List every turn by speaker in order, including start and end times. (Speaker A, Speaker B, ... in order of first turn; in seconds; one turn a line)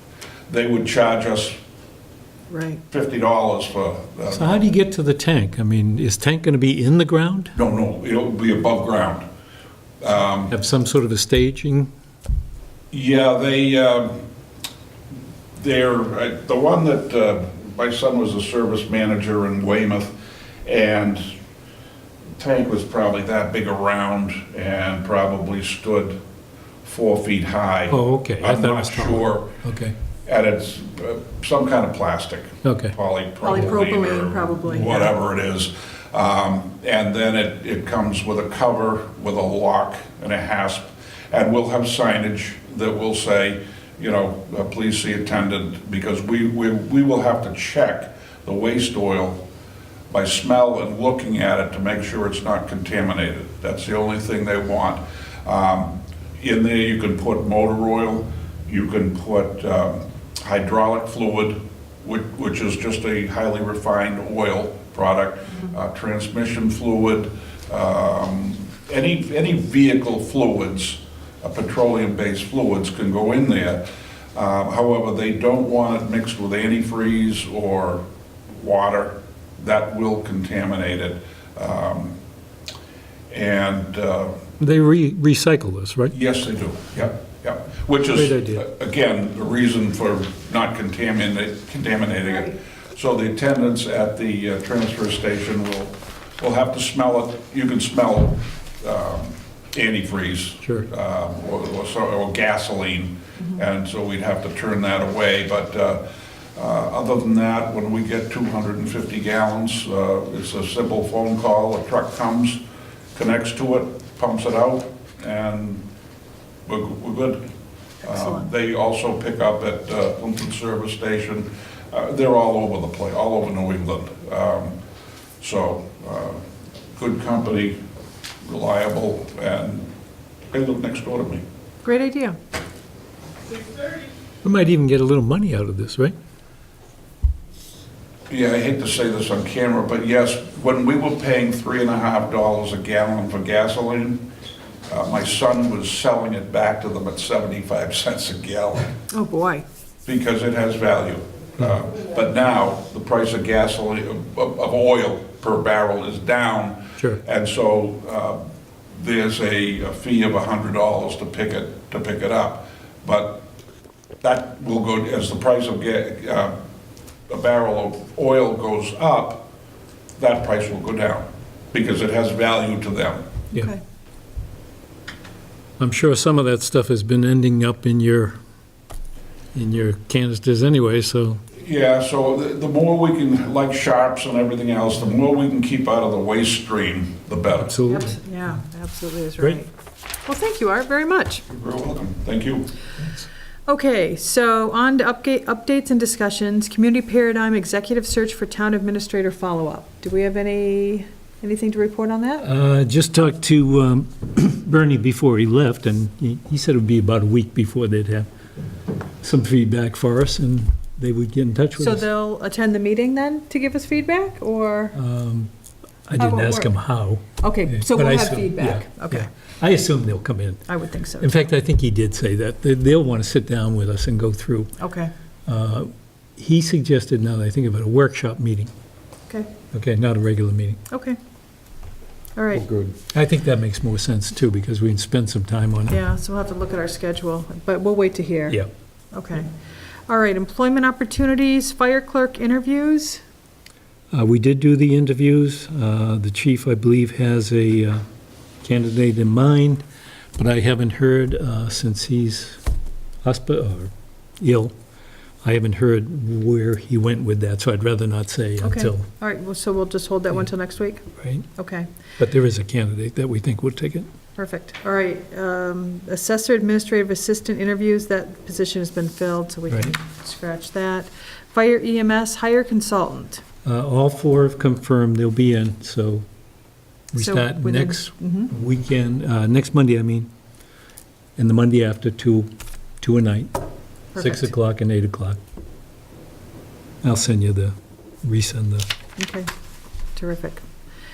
Speaker A: 0.5-1.5
Speaker B: 2.5-2.8
Speaker A: 2.9-4.6
Speaker C: 4.3-7.5
Speaker A: 7.5-9.2
Speaker A: 10.0-10.5
Speaker C: 10.5-11.9
Speaker A: 12.9-14.2
Speaker A: 15.6-21.2
Speaker A: 22.4-26.1
Speaker A: 26.8-29.6
Speaker C: 27.9-29.9
Speaker A: 30.2-49.4
Speaker C: 32.6-32.9
Speaker B: 33.4-35.1
Speaker A: 50.1-73.8
Speaker A: 74.3-82.2
Speaker A: 83.3-84.4
Speaker C: 84.6-86.1
Speaker A: 86.1-106.0
Speaker C: 88.1-88.7
Speaker C: 100.6-100.9
Speaker A: 106.5-112.6
Speaker A: 113.1-115.8
Speaker A: 116.7-117.4
Speaker A: 118.0-124.8
Speaker B: 118.0-118.5
Speaker A: 125.4-126.4
Speaker A: 126.9-127.8
Speaker A: 128.4-129.9
Speaker A: 130.5-131.4
Speaker B: 131.8-132.4
Speaker C: 134.4-136.1
Speaker A: 138.3-144.2
Speaker A: 144.9-148.9
Speaker B: 149.1-149.6
Speaker A: 150.0-158.4
Speaker A: 158.9-163.4
Speaker A: 164.2-166.5
Speaker A: 167.3-169.4
Speaker A: 170.2-173.2
Speaker B: 173.5-173.8
Speaker C: 175.8-178.3
Speaker C: 179.5-181.4
Speaker A: 181.5-187.8
Speaker C: 187.5-188.2
Speaker B: 187.9-189.7
Speaker B: 190.2-191.4
Speaker A: 191.5-192.7
Speaker B: 193.7-202.4
Speaker C: 202.4-208.3
Speaker C: 209.2-212.1
Speaker B: 211.8-214.9
Speaker C: 214.9-215.5
Speaker C: 216.1-224.8
Speaker B: 216.2-216.7
Speaker B: 217.4-219.3
Speaker B: 220.7-221.4
Speaker B: 224.8-225.1
Speaker C: 225.5-228.7
Speaker B: 229.3-229.5
Speaker C: 229.7-230.8
Speaker B: 230.9-231.2
Speaker B: 232.3-232.7
Speaker C: 232.5-236.0
Speaker B: 235.9-238.6
Speaker B: 239.1-239.5
Speaker B: 240.1-243.2
Speaker C: 244.1-248.0
Speaker C: 248.6-249.8
Speaker C: 250.4-252.6
Speaker C: 253.2-254.7
Speaker C: 255.4-259.1
Speaker B: 258.6-261.0
Speaker C: 261.2-261.5
Speaker B: 261.6-261.9
Speaker C: 262.2-264.1
Speaker B: 264.4-273.4
Speaker C: 273.6-276.2
Speaker C: 277.1-280.3
Speaker B: 277.2-278.5
Speaker C: 281.4-282.5
Speaker C: 283.0-283.6
Speaker B: 284.1-284.5
Speaker C: 284.1-285.4
Speaker C: 287.0-288.9
Speaker B: 289.2-289.5
Speaker B: 290.1-290.7